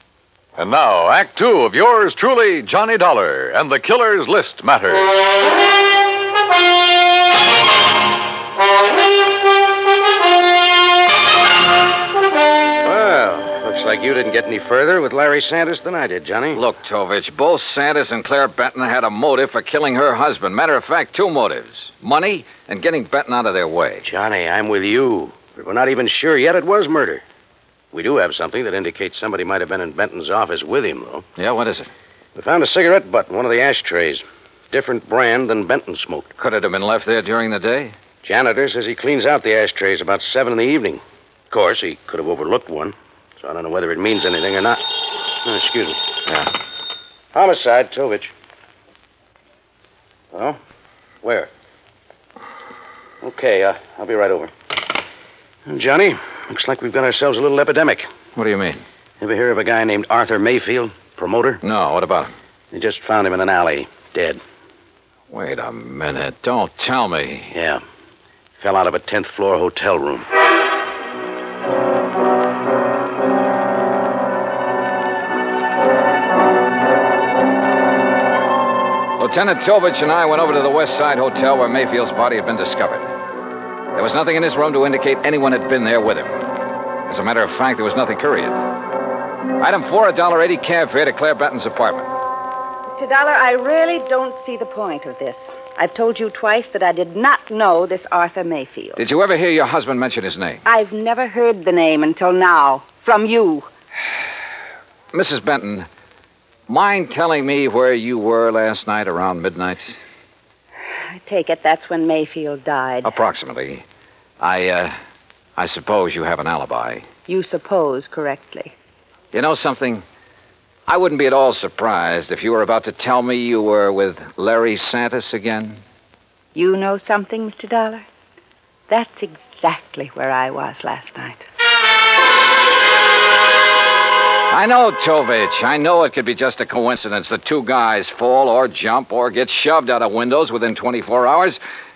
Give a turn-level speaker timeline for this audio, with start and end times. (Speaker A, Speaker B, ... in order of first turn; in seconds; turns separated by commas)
Speaker A: 0.6-5.1, Speaker B: 12.8-16.6, Speaker C: 16.5-24.1, Speaker B: 24.1-27.2, Speaker B: 27.9-31.2, Speaker C: 31.4-31.9, Speaker B: 32.4-36.3, Speaker C: 36.4-38.0, Speaker B: 38.2-44.8, Speaker B: 45.4-46.0, Speaker B: 47.3-48.3, Speaker B: 50.3-50.6, Speaker B: 51.2-51.5, Speaker B: 53.2-54.5, Speaker B: 55.7-58.1, Speaker C: 58.4-58.8, Speaker B: 59.2-61.6, Speaker C: 61.6-62.3, Speaker B: 62.7-64.4, Speaker C: 65.3-67.5, Speaker B: 67.5-67.8, Speaker B: 68.6-70.3, Speaker C: 79.2-83.1, Speaker C: 83.9-86.5, Speaker C: 87.1-88.6, Speaker C: 89.6-92.1, Speaker D: 92.9-99.0, Speaker C: 99.0-100.6, Speaker D: 100.7-103.7, Speaker C: 105.1-105.9, Speaker C: 106.7-109.9, Speaker D: 111.1-113.1, Speaker C: 113.0-113.8, Speaker C: 114.4-115.0, Speaker C: 115.6-117.0, Speaker D: 117.3-118.7, Speaker C: 119.3-120.0, Speaker C: 120.9-125.8, Speaker D: 126.5-128.1, Speaker D: 128.9-131.4, Speaker C: 134.5-141.6